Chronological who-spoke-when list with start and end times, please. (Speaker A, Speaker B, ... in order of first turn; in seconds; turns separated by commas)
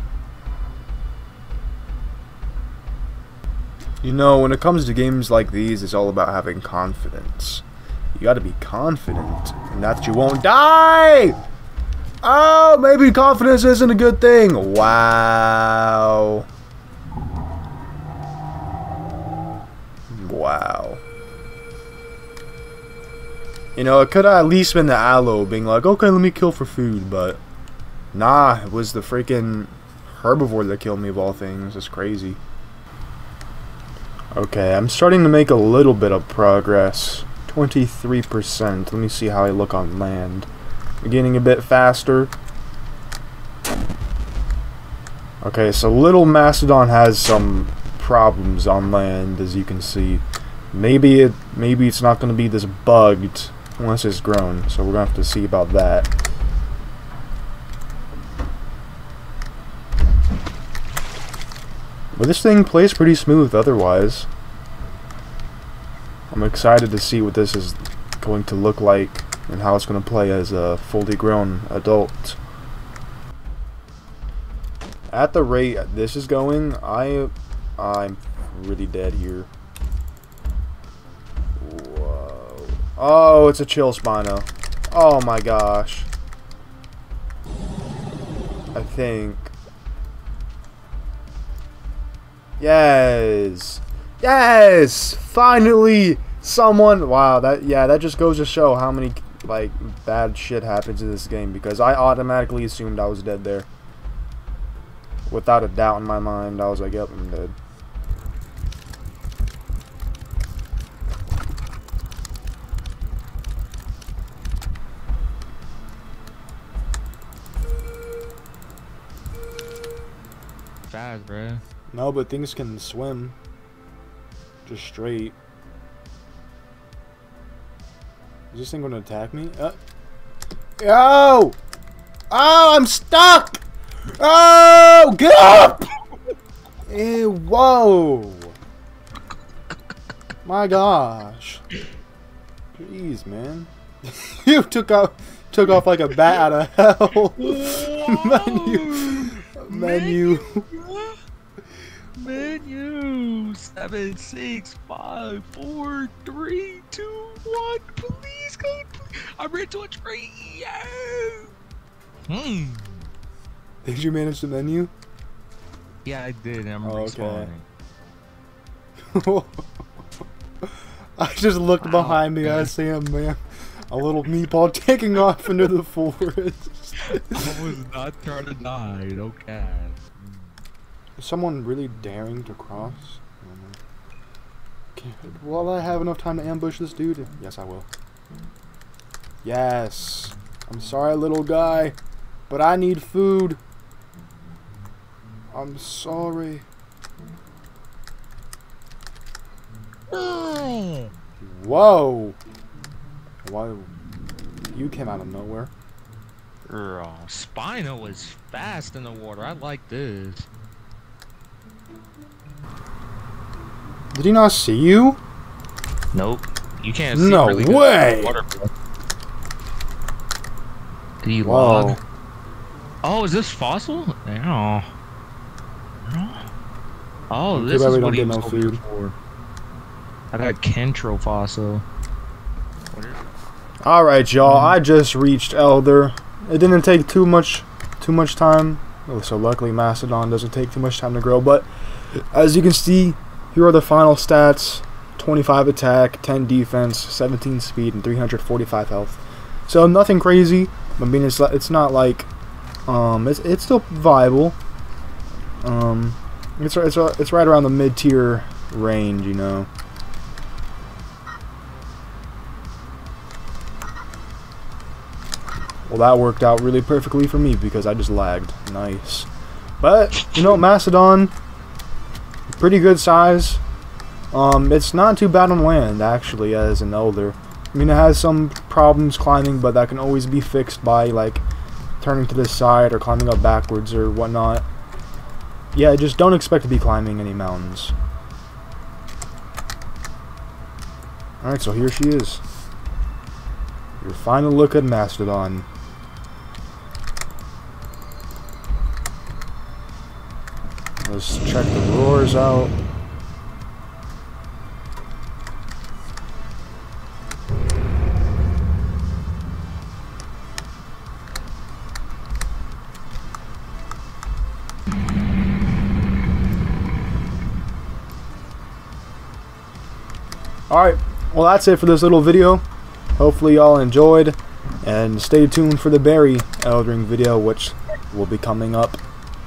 Speaker A: 4.0-11.4, Speaker A: 12.2-16.5, Speaker A: 20.1-21.0, Speaker A: 23.8-27.4, Speaker A: 28.1-32.4, Speaker A: 34.4-40.5, Speaker A: 41.0-42.3, Speaker A: 45.4-56.1, Speaker A: 62.1-64.3, Speaker A: 66.3-72.4, Speaker A: 75.1-79.5, Speaker A: 81.6-86.1, Speaker A: 88.7-89.5, Speaker A: 92.6-103.7, Speaker A: 105.3-107.5, Speaker B: 120.9-121.6, Speaker A: 121.9-123.3, Speaker A: 124.7-125.3, Speaker A: 128.5-129.8, Speaker A: 130.8-131.6, Speaker A: 132.3-133.6, Speaker A: 134.1-135.9, Speaker A: 136.9-138.6, Speaker A: 140.4-141.6, Speaker A: 142.8-150.7, Speaker B: 147.4-151.2, Speaker B: 152.2-161.5, Speaker B: 162.3-163.1, Speaker A: 163.8-164.9, Speaker B: 166.0-167.7, Speaker A: 166.8-167.5, Speaker A: 169.1-169.6, Speaker A: 171.2-177.8, Speaker B: 171.8-172.7, Speaker B: 177.1-180.1, Speaker A: 181.2-183.8, Speaker A: 184.9-187.9, Speaker A: 189.4-192.0, Speaker A: 192.5-193.6, Speaker A: 195.5-196.7, Speaker B: 200.1-201.1, Speaker A: 201.4-202.4, Speaker A: 203.4-203.9, Speaker A: 204.7-205.7, Speaker B: 206.7-210.5, Speaker A: 214.1-215.2, Speaker B: 216.1-218.7, Speaker A: 217.1-218.3, Speaker B: 221.2-222.0, Speaker A: 221.4-222.0, Speaker B: 223.0-224.9, Speaker B: 226.0-226.5, Speaker B: 227.3-229.1, Speaker A: 227.5-228.8, Speaker B: 230.3-231.8, Speaker B: 232.9-233.2, Speaker A: 233.8-252.3, Speaker B: 234.4-234.8, Speaker A: 252.9-254.6, Speaker A: 255.6-259.7, Speaker A: 265.9-269.3, Speaker A: 269.8-271.3, Speaker A: 272.5-273.6, Speaker A: 274.3-281.4, Speaker A: 282.0-284.6, Speaker A: 285.7-287.9, Speaker A: 291.4-292.4, Speaker A: 294.0-295.7, Speaker A: 301.0-302.7, Speaker A: 320.7-322.6, Speaker A: 323.2-329.0